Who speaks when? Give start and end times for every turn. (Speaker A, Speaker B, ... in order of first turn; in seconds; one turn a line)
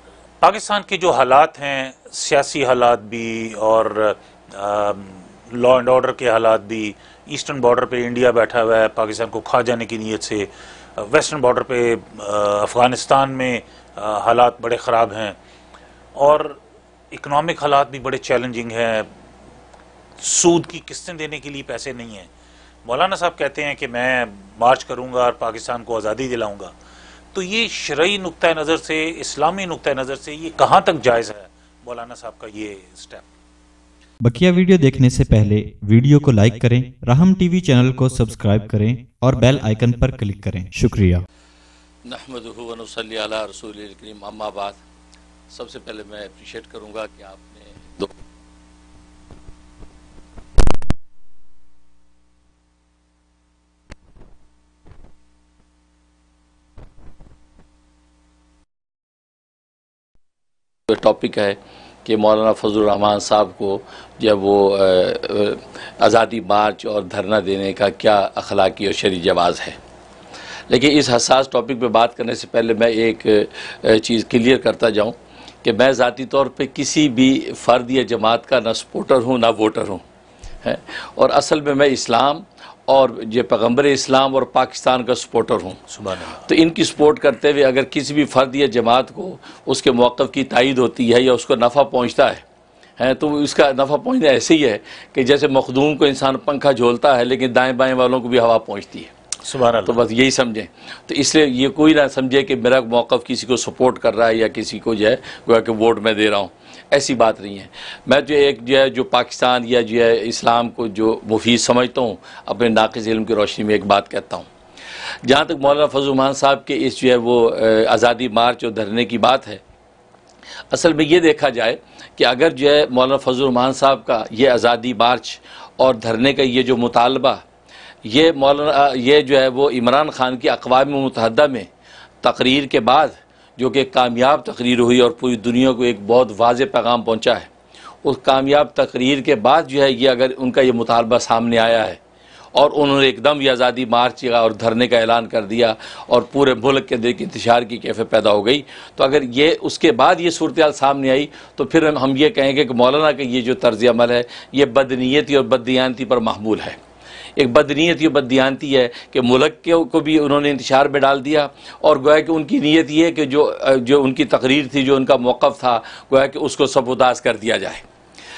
Speaker A: 0.4-15.4
Speaker A: 16.2-16.6
Speaker A: 17.1-19.1
Speaker A: 20.2-22.3
Speaker A: 22.8-26.7
Speaker A: 27.3-33.2
Speaker B: 34.2-41.2
Speaker C: 42.0-44.8
Speaker C: 45.5-48.1
Speaker C: 60.9-69.8
Speaker C: 70.7-80.0
Speaker C: 80.6-85.8
Speaker A: 85.9-86.4
Speaker C: 86.3-92.4
Speaker C: 93.0-99.1
Speaker A: 99.4-100.0
Speaker C: 99.8-114.5
Speaker C: 115.2-119.6
Speaker C: 120.7-127.4
Speaker C: 128.0-131.7
Speaker C: 132.2-137.5
Speaker C: 138.0-142.0
Speaker C: 142.5-156.8
Speaker C: 157.4-167.8